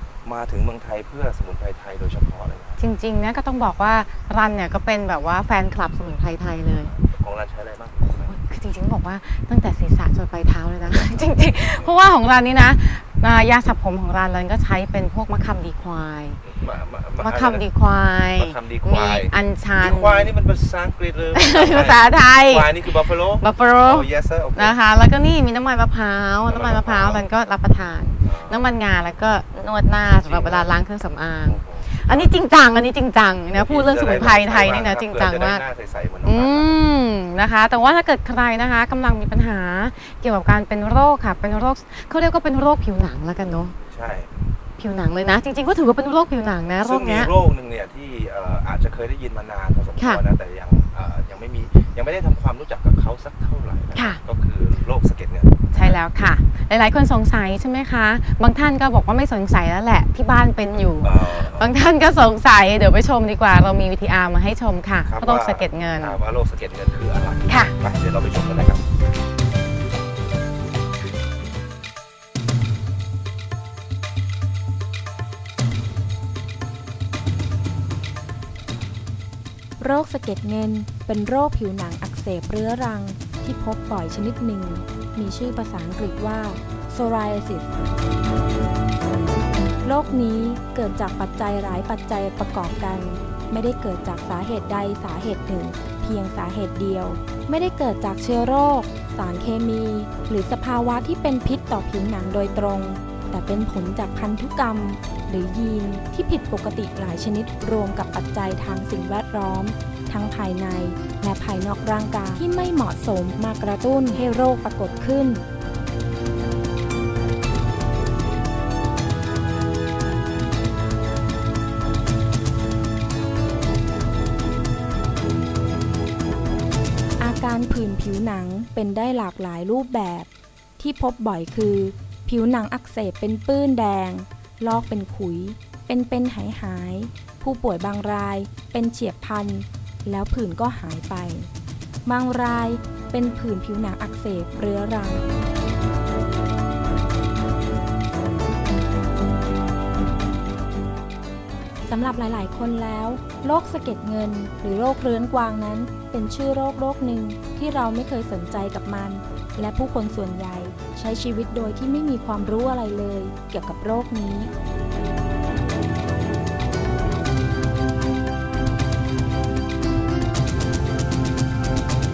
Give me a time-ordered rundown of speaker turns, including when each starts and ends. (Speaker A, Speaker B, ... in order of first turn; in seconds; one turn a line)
Speaker A: 0.2-2.8
Speaker B: 2.8-6.9
Speaker A: 6.7-8.3
Speaker B: 8.1-16.4
Speaker A: 10.9-11.9
Speaker A: 16.4-17.6
Speaker B: 17.2-20.3
Speaker A: 18.4-24.8
Speaker B: 21.3-35.6
Speaker A: 26.5-27.2
Speaker A: 28.2-28.7
Speaker A: 30.2-30.7
Speaker A: 31.4-32.3
Speaker A: 33.5-36.8
Speaker B: 36.2-43.8
Speaker A: 43.9-44.5
Speaker B: 44.8-47.3
Speaker A: 46.8-56.0
Speaker B: 53.9-54.2
Speaker B: 55.7-66.2
Speaker A: 61.0-61.8
Speaker A: 65.0-68.8
Speaker B: 67.5-67.7
Speaker C: 79.8-87.7
Speaker C: 89.8-115.4
Speaker C: 127.2-141.5
Speaker C: 142.1-145.2
Speaker C: 151.9-164.5